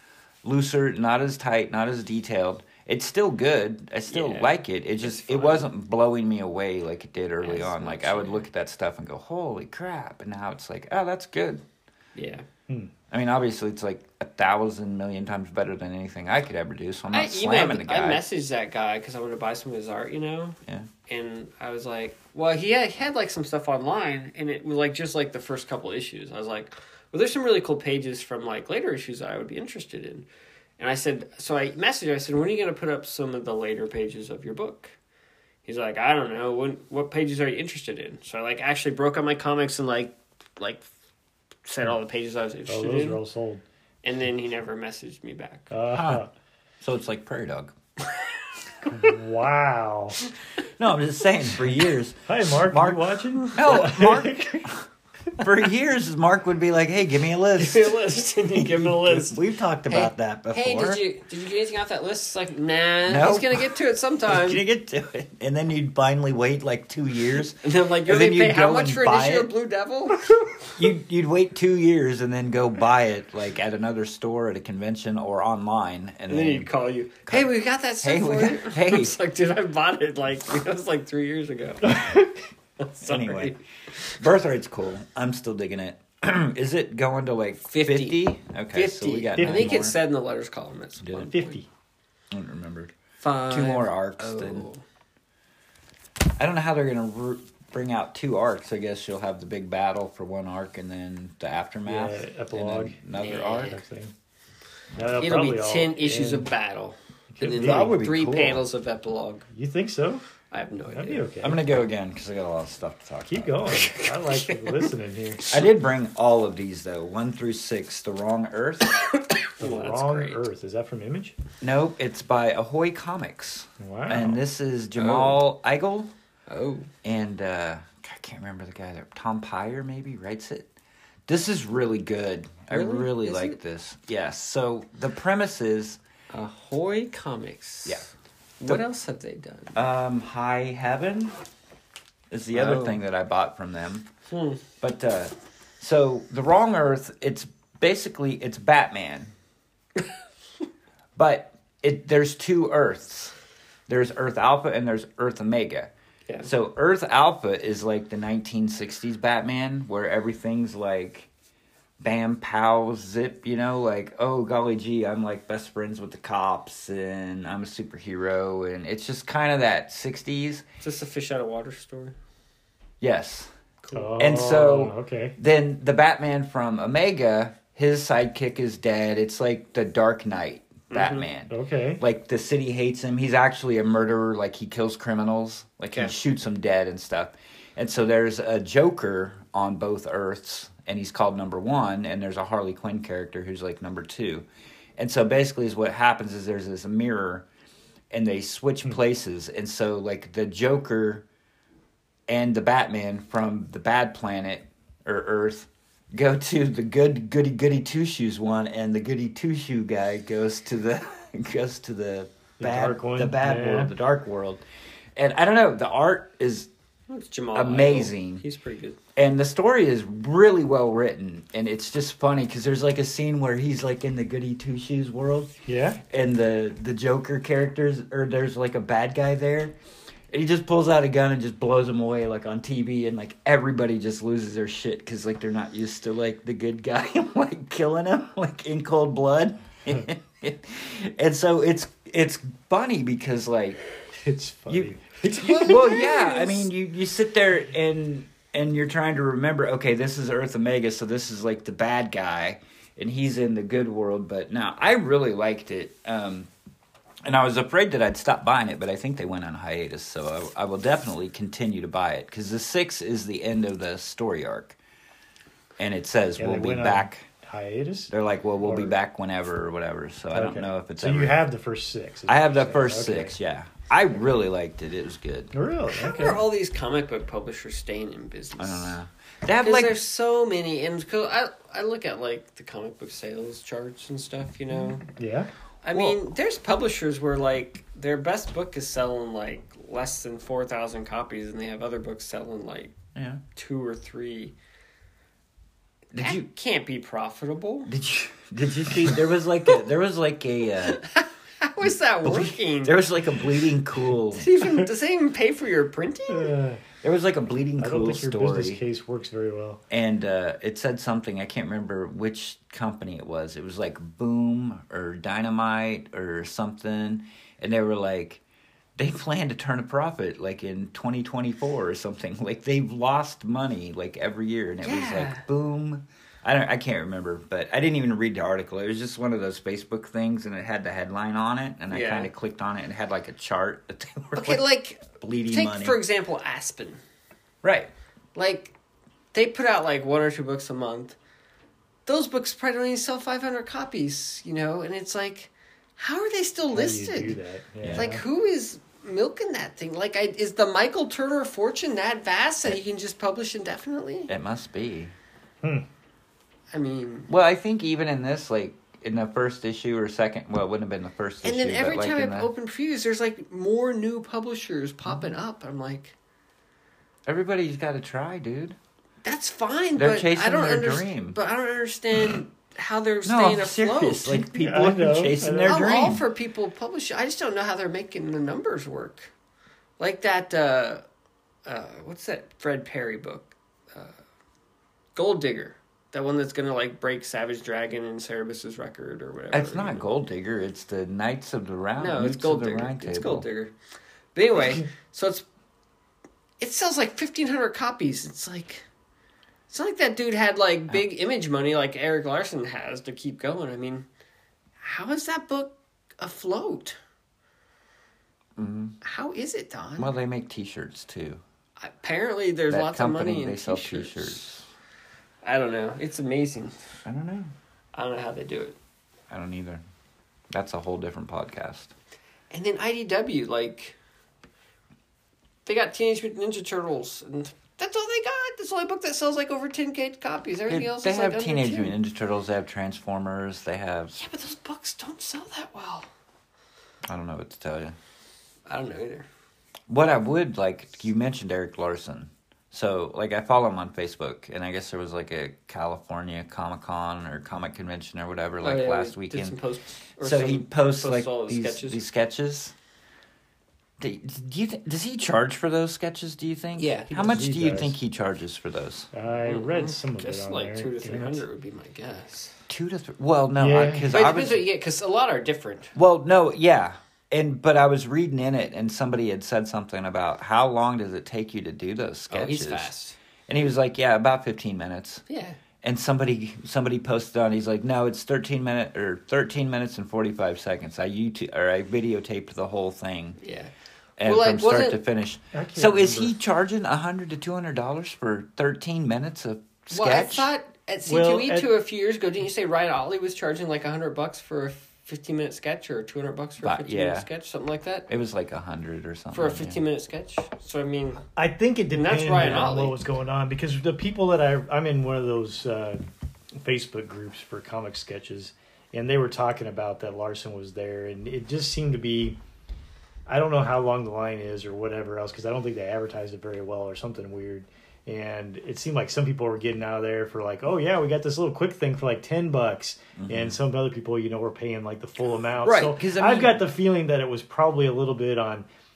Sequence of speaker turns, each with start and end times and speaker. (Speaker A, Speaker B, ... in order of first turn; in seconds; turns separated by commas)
Speaker A: 0.4-11.6, Speaker B: 4.1-5.7, Speaker B: 7.4-8.4, Speaker B: 12.1-12.4, Speaker A: 13.1-18.2, Speaker B: 17.1-30.2, Speaker B: 30.8-34.9, Speaker B: 35.6-40.9, Speaker B: 41.6-43.2, Speaker C: 42.7-43.6, Speaker B: 44.0-45.7, Speaker C: 45.7-46.3, Speaker A: 46.8-47.7, Speaker C: 48.9-50.2, Speaker A: 50.8-54.8, Speaker C: 52.3-54.7, Speaker A: 55.4-61.0, Speaker B: 57.6-64.6, Speaker A: 63.0-63.7, Speaker A: 64.3-69.5, Speaker B: 67.6-70.7, Speaker A: 70.8-76.7, Speaker B: 76.3-82.0, Speaker A: 77.2-79.2, Speaker C: 81.9-82.3, Speaker B: 82.8-84.2, Speaker A: 83.0-83.5, Speaker A: 84.1-90.0, Speaker B: 87.7-91.6, Speaker C: 89.3-89.9, Speaker A: 91.0-91.3, Speaker C: 91.3-91.7, Speaker A: 92.3-92.9, Speaker B: 93.2-94.8, Speaker A: 93.5-94.7, Speaker A: 96.4-103.8, Speaker C: 101.8-103.0, Speaker B: 103.2-103.8, Speaker C: 103.7-104.1, Speaker C: 105.0-106.5, Speaker B: 105.2-109.5, Speaker C: 107.3-108.0, Speaker A: 107.4-108.6, Speaker C: 109.5-110.2, Speaker B: 110.5-111.3, Speaker C: 110.9-111.6, Speaker A: 111.4-113.9, Speaker C: 113.3-115.5, Speaker B: 113.7-114.9, Speaker A: 115.5-118.9, Speaker B: 118.9-120.4, Speaker C: 119.6-121.3, Speaker A: 121.6-126.1, Speaker C: 123.8-124.4, Speaker B: 125.0-125.4, Speaker B: 126.5-126.9, Speaker A: 127.0-130.7, Speaker A: 131.3-136.0, Speaker B: 132.7-133.6, Speaker B: 136.3-139.8, Speaker A: 139.7-141.4, Speaker A: 142.3-144.1, Speaker B: 142.5-143.0, Speaker B: 144.3-144.6, Speaker A: 144.8-149.3, Speaker A: 151.2-153.3, Speaker A: 153.9-155.9, Speaker A: 156.4-161.3, Speaker A: 162.0-170.6, Speaker B: 170.8-172.2, Speaker A: 173.0-173.5, Speaker B: 173.8-174.1, Speaker C: 173.9-175.3, Speaker A: 174.2-194.4, Speaker B: 180.9-181.3, Speaker C: 181.5-182.0, Speaker A: 195.0-197.5, Speaker A: 198.1-201.2, Speaker A: 202.3-214.6, Speaker C: 212.6-213.9, Speaker A: 215.2-216.7, Speaker B: 217.1-219.0, Speaker A: 217.5-218.4, Speaker A: 219.2-225.5, Speaker C: 225.7-226.0, Speaker A: 226.1-229.7, Speaker A: 230.3-243.8, Speaker C: 244.2-246.0, Speaker A: 244.7-256.5, Speaker B: 245.4-246.6, Speaker A: 257.2-264.8, Speaker A: 265.8-267.2, Speaker C: 266.4-268.9, Speaker A: 268.1-271.4, Speaker C: 270.3-273.3, Speaker A: 272.3-275.5, Speaker C: 275.5-276.4, Speaker B: 275.9-279.0, Speaker A: 278.6-279.9, Speaker B: 279.6-285.1, Speaker C: 285.1-285.5, Speaker B: 285.8-292.9, Speaker A: 285.9-286.2, Speaker A: 293.1-293.4, Speaker B: 293.5-294.5, Speaker A: 296.1-296.4, Speaker B: 296.2-297.9, Speaker A: 297.9-301.0, Speaker B: 300.8-303.0, Speaker A: 302.2-304.5, Speaker B: 304.3-306.5, Speaker C: 306.3-306.8, Speaker A: 307.0-308.8, Speaker C: 307.8-309.8, Speaker A: 309.9-318.4, Speaker A: 319.0-336.0, Speaker B: 324.8-325.4, Speaker B: 331.9-332.3, Speaker B: 334.3-337.0, Speaker A: 337.6-337.9, Speaker B: 338.3-338.7, Speaker B: 339.3-341.1, Speaker B: 342.1-347.4, Speaker C: 346.7-348.2, Speaker A: 347.8-348.1, Speaker B: 347.9-354.3, Speaker A: 354.3-355.1, Speaker B: 356.7-357.3, Speaker A: 357.3-362.5, Speaker B: 361.4-366.1, Speaker A: 367.2-368.8, Speaker B: 369.2-374.4, Speaker A: 369.9-371.4, Speaker A: 373.2-376.2, Speaker C: 374.5-375.8, Speaker B: 375.6-379.3, Speaker B: 380.0-381.0, Speaker B: 381.6-384.2, Speaker B: 385.1-390.1, Speaker A: 389.5-393.4, Speaker B: 392.0-393.7, Speaker B: 394.3-395.4, Speaker B: 396.6-398.8, Speaker B: 399.7-404.1, Speaker B: 404.8-407.0, Speaker A: 408.6-409.0, Speaker B: 409.0-410.1, Speaker A: 410.0-411.4, Speaker B: 411.8-414.5, Speaker A: 412.7-414.6, Speaker B: 415.4-416.7, Speaker A: 417.1-417.5, Speaker B: 417.9-418.8, Speaker A: 419.3-419.8, Speaker A: 420.5-421.9, Speaker B: 422.5-424.0, Speaker B: 425.6-431.9, Speaker A: 430.7-434.1, Speaker B: 434.1-436.1, Speaker A: 437.1-437.9, Speaker B: 438.6-439.2, Speaker A: 439.9-449.6, Speaker B: 448.6-452.0, Speaker A: 450.2-452.7, Speaker A: 454.0-459.1, Speaker B: 456.8-457.4, Speaker C: 457.1-457.9, Speaker C: 459.1-461.4, Speaker B: 459.4-462.5, Speaker A: 462.7-464.6, Speaker C: 463.6-464.1, Speaker B: 464.1-465.9, Speaker A: 465.9-472.9, Speaker B: 472.3-473.2, Speaker A: 473.5-475.2, Speaker B: 475.3-475.6, Speaker A: 475.8-483.4, Speaker B: 483.4-483.7, Speaker A: 484.2-490.5, Speaker B: 484.2-485.0, Speaker C: 485.5-486.3, Speaker B: 489.9-498.1, Speaker C: 491.1-491.7, Speaker A: 496.6-497.3, Speaker A: 498.1-499.8, Speaker B: 499.3-501.2, Speaker C: 501.4-506.0, Speaker B: 501.9-503.0, Speaker C: 506.6-512.4, Speaker C: 513.3-528.6, Speaker A: 523.2-523.6, Speaker A: 525.6-526.6